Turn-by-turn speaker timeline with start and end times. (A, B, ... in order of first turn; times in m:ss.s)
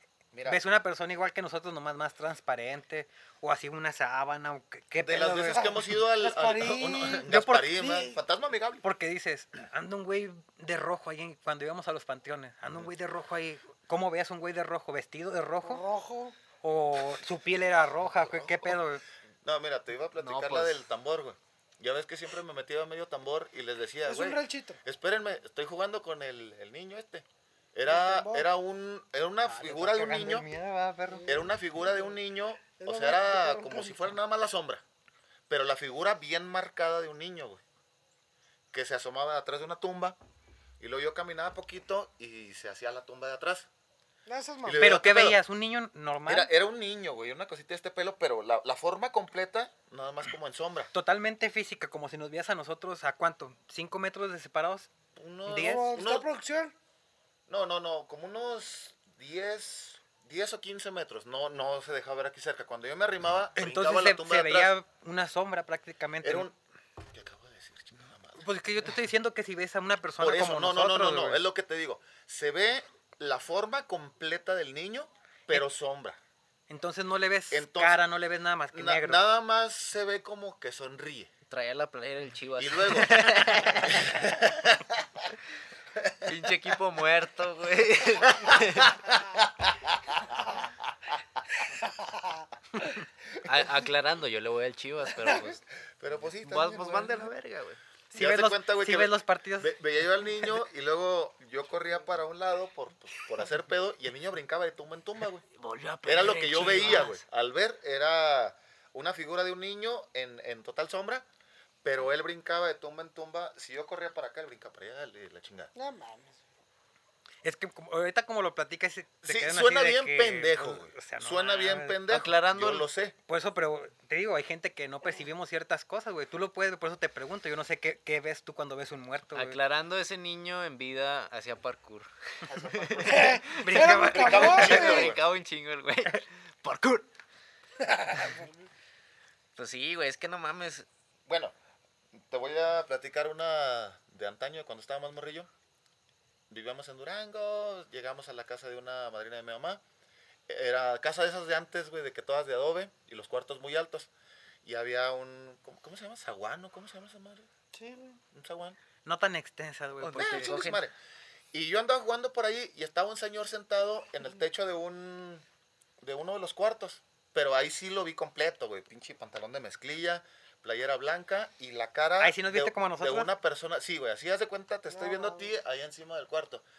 0:00.3-0:00.6 A
0:00.4-0:05.7 B
0:05.0-0:08.8 A
0:05.6-0:08.2 C
0:07.3-0:07.8 B
0:08.8-0:15.8 B
0:15.6-0:16.4 C
0:16.6-0:19.0 B
0:18.1-0:18.8 A
0:19.4-0:30.5 A
0:20.2-0:20.8 D
0:24.0-0:24.8 C
0:27.8-0:28.5 C
0:29.4-0:31.3 B
0:31.1-0:34.0 C
0:31.3-0:34.8 A
0:35.5-0:37.6 A
0:38.7-0:40.2 A
0:40.8-0:43.7 A
0:44.2-0:44.9 C
0:44.6-0:45.4 A
0:44.8-0:46.5 B
0:46.3-0:50.9 A
0:50.9-0:54.9 B
0:55.2-0:56.3 A
0:55.5-0:55.8 B
0:55.6-0:56.7 C
0:57.5-1:04.7 A
1:03.6-1:06.5 B
1:06.2-1:06.5 A
1:07.1-1:08.4 A
1:08.4-1:11.4 B
1:10.2-1:16.2 A
1:16.7-1:19.2 B
1:17.5-1:18.0 A
1:18.7-1:21.3 A
1:21.5-1:24.2 D
1:22.6-1:25.3 A
1:25.9-1:26.3 A
1:26.2-1:29.0 D
1:28.4-1:31.1 A
1:31.8-1:32.4 C
1:33.4-1:35.6 D
1:35.2-1:35.6 C
1:36.0-1:36.8 A
1:36.4-1:37.8 D
1:36.7-1:37.3 C
1:38.1-1:39.7 B
1:38.1-1:45.4 A
1:45.6-1:47.2 D
1:46.0-1:51.2 A
1:51.8-1:55.7 A
1:55.7-1:56.4 C
1:57.4-2:02.0 B
1:59.2-2:03.1 A
2:02.1-2:02.9 D
2:03.2-2:09.6 B
2:09.3-2:13.6 D
2:12.4-2:15.2 A
2:13.0-2:15.1 C
2:13.6-2:14.9 B
2:14.4-2:17.1 D
2:19.6-2:20.8 D
2:21.3-2:21.5 A
2:22.1-2:25.5 A
2:26.5-2:29.8 A
2:30.5-2:34.1 A
2:34.6-2:37.5 A
2:37.7-2:38.2 C
2:38.3-2:38.8 A
2:39.0-2:40.8 B
2:40.0-2:40.8 D
2:40.2-2:40.9 A
2:41.5-2:45.4 A
2:46.0-2:56.6 A
2:52.2-2:53.3 B
2:54.9-2:55.5 C